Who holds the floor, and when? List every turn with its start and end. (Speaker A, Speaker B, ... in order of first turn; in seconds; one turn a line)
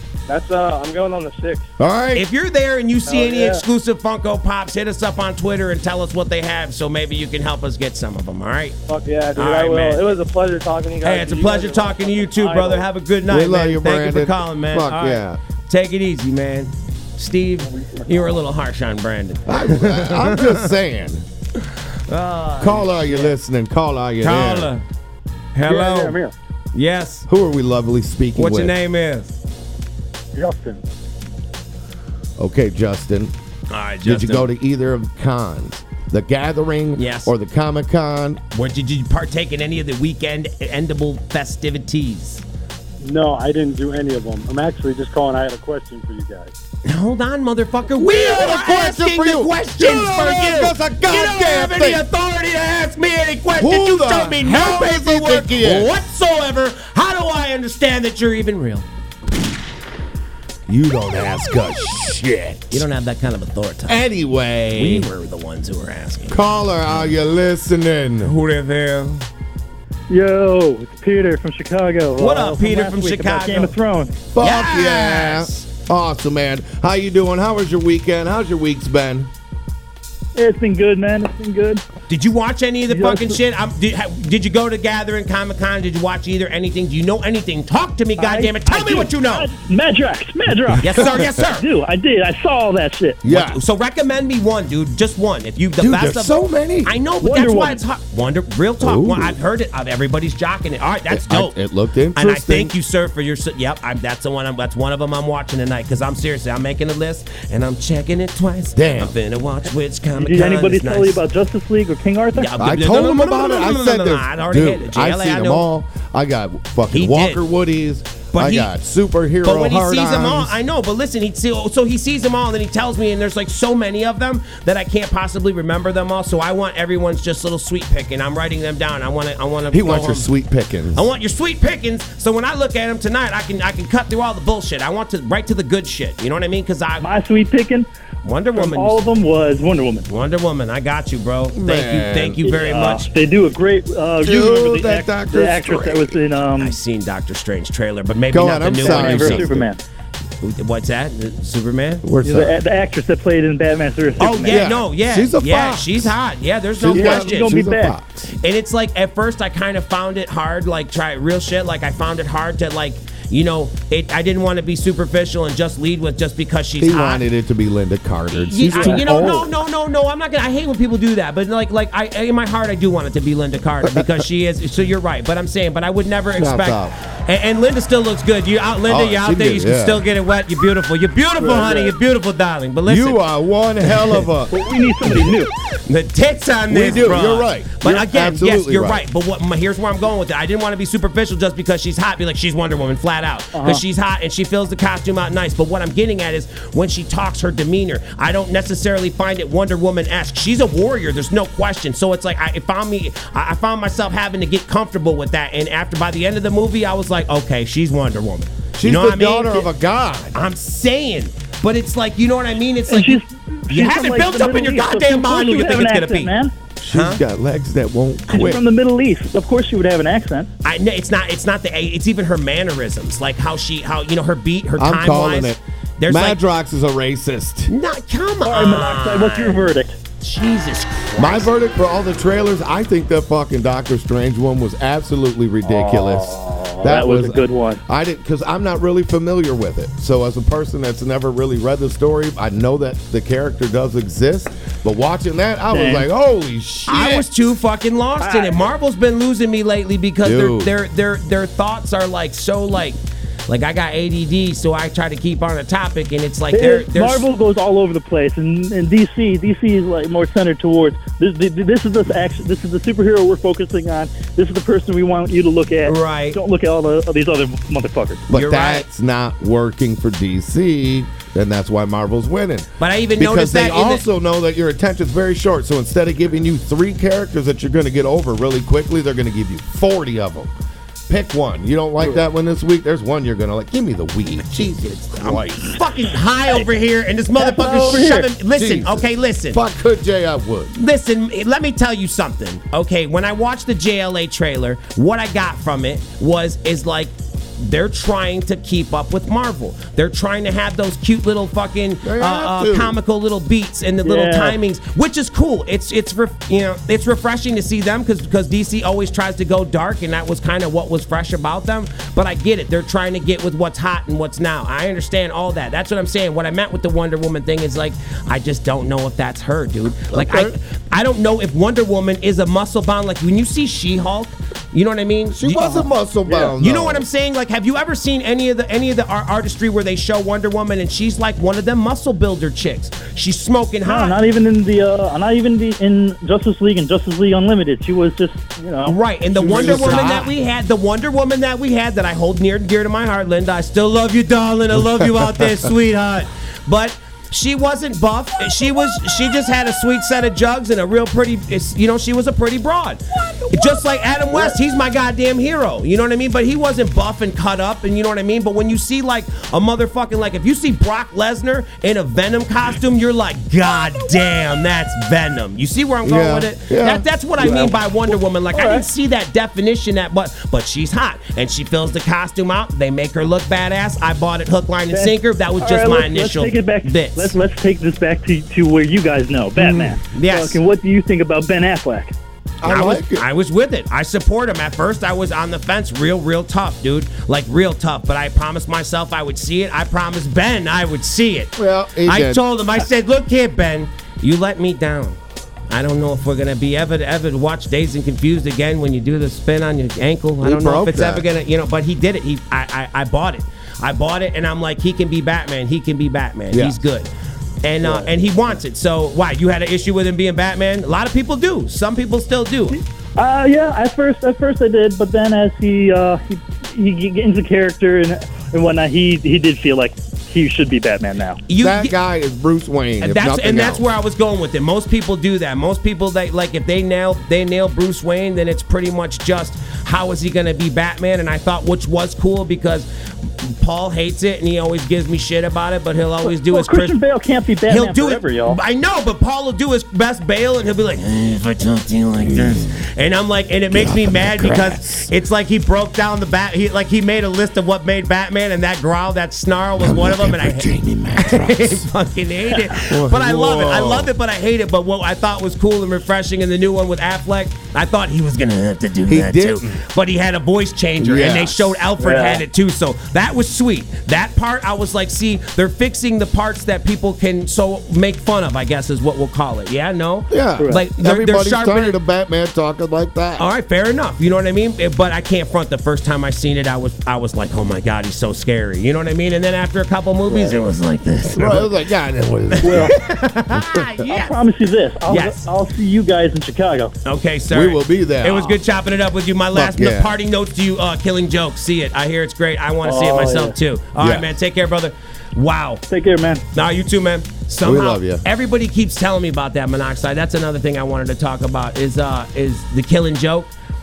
Speaker A: 0.3-1.7
Speaker B: 1.8-2.3
Speaker C: 2.1-8.8
Speaker A: 3.1-3.6
Speaker A: 8.9-12.9
Speaker C: 9.3-10.1
Speaker C: 11.0-20.7
Speaker B: 13.3-15.4
Speaker B: 19.5-21.2
Speaker C: 22.1-23.4
Speaker B: 22.6-24.7
Speaker C: 24.2-24.8
Speaker C: 25.6-26.2
Speaker D: 25.7-26.3
Speaker C: 26.7-27.3
Speaker B: 27.3-28.8
Speaker C: 28.4-29.3
Speaker D: 30.4-30.8
Speaker B: 32.4-33.3
Speaker C: 33.7-34.5
Speaker B: 34.0-38.4
Speaker C: 37.0-37.3
Speaker C: 38.5-42.4
Speaker D: 43.0-46.5
Speaker C: 46.9-58.9
Speaker B: 47.9-52.0
Speaker B: 53.6-56.0
Speaker B: 60.7-62.9
Speaker C: 62.7-64.0
Speaker B: 63.9-65.1
Speaker C: 64.7-66.4
Speaker B: 66.3-68.3
Speaker C: 68.2-69.2
Speaker E: 70.1-74.2
Speaker C: 72.2-73.8
Speaker B: 74.3-79.3
Speaker C: 74.4-75.7
Speaker E: 80.4-81.8
Speaker C: 82.1-89.5
Speaker E: 82.9-83.4
Speaker E: 88.2-93.2
Speaker C: 90.8-91.7
Speaker B: 90.8-91.3
Speaker B: 93.2-93.6
Speaker C: 93.3-101.5
Speaker B: 95.8-97.0
Speaker E: 97.2-97.8
Speaker B: 98.8-99.4
Speaker B: 101.1-102.7
Speaker C: 102.2-111.2
Speaker B: 108.8-109.1
Speaker E: 110.2-112.6
Speaker C: 112.3-115.7
Speaker B: 112.6-120.6
Speaker C: 116.9-117.4
Speaker C: 118.3-118.7
Speaker C: 119.4-130.3
Speaker B: 129.7-131.1
Speaker C: 130.9-137.1
Speaker E: 137.0-137.9
Speaker C: 138.2-139.1
Speaker E: 138.5-140.1
Speaker C: 140.1-143.1
Speaker B: 141.5-142.4
Speaker E: 142.4-146.8
Speaker B: 144.2-146.2
Speaker C: 146.6-149.6
Speaker B: 148.3-149.7
Speaker E: 148.7-149.8
Speaker C: 150.4-152.0
Speaker B: 152.0-152.6
Speaker E: 152.2-154.6
Speaker C: 154.2-157.5
Speaker B: 154.5-156.2
Speaker B: 156.8-158.3
Speaker E: 156.9-157.9
Speaker C: 158.4-167.2
Speaker B: 166.8-169.5
Speaker C: 168.3-183.2
Speaker E: 168.8-169.1
Speaker B: 173.8-174.2
Speaker B: 176.3-176.9
Speaker B: 178.9-180.1
Speaker B: 182.9-184.6
Speaker E: 184.5-185.5
Speaker C: 185.9-209.7
Speaker B: 186.7-189.1
Speaker E: 193.5-193.8
Speaker B: 208.8-210.4
Speaker C: 210.3-216.3
Speaker E: 212.9-216.5
Speaker B: 216.8-218.6
Speaker C: 216.9-217.2
Speaker E: 218.3-220.5
Speaker C: 220.6-226.4
Speaker B: 224.8-227.7
Speaker C: 227.7-231.5
Speaker E: 228.4-229.9
Speaker B: 231.2-247.3
Speaker E: 235.6-237.8
Speaker E: 245.7-246.1
Speaker C: 246.9-257.3
Speaker E: 248.2-248.6
Speaker B: 250.2-250.7
Speaker E: 256.5-268.3
Speaker C: 265.9-266.4
Speaker B: 268.3-280.5
Speaker C: 268.3-268.9
Speaker C: 272.8-274.0
Speaker B: 281.1-285.8
Speaker C: 284.8-289.6
Speaker E: 287.4-288.3
Speaker B: 288.5-290.7
Speaker C: 290.7-325.9
Speaker B: 302.0-303.0
Speaker E: 304.0-304.6
Speaker B: 320.1-320.6
Speaker B: 325.3-327.1
Speaker C: 326.6-334.2
Speaker E: 333.9-340.1
Speaker C: 338.9-377.4
Speaker B: 339.4-340.3
Speaker B: 345.0-345.5
Speaker E: 363.7-364.6
Speaker B: 366.0-367.1
Speaker E: 367.4-368.9
Speaker E: 374.9-382.1
Speaker C: 380.1-380.6
Speaker B: 382.6-383.3
Speaker C: 382.6-395.2
Speaker B: 391.6-392.4
Speaker C: 395.7-407.1
Speaker B: 400.4-401.3
Speaker B: 406.5-406.8
Speaker C: 407.6-412.8
Speaker E: 412.8-421.4
Speaker C: 421.5-421.9
Speaker B: 421.6-423.8
Speaker C: 423.0-437.0
Speaker E: 436.2-438.6
Speaker C: 437.7-472.0
Speaker B: 442.2-442.7
Speaker B: 443.7-445.1
Speaker B: 449.8-451.9
Speaker B: 452.7-454.1
Speaker B: 459.1-459.8
Speaker B: 461.0-461.8
Speaker E: 462.0-462.4
Speaker B: 470.3-473.5
Speaker C: 473.4-481.7
Speaker E: 480.3-480.5
Speaker B: 481.3-483.0
Speaker C: 482.5-484.4
Speaker E: 482.6-482.9
Speaker B: 483.5-483.9
Speaker E: 484.1-486.9
Speaker C: 485.1-485.5
Speaker C: 487.1-495.8
Speaker B: 487.5-488.6
Speaker B: 489.5-490.2
Speaker E: 492.8-493.6
Speaker B: 494.0-494.4
Speaker E: 495.9-496.4
Speaker C: 496.5-503.5
Speaker B: 497.6-498.2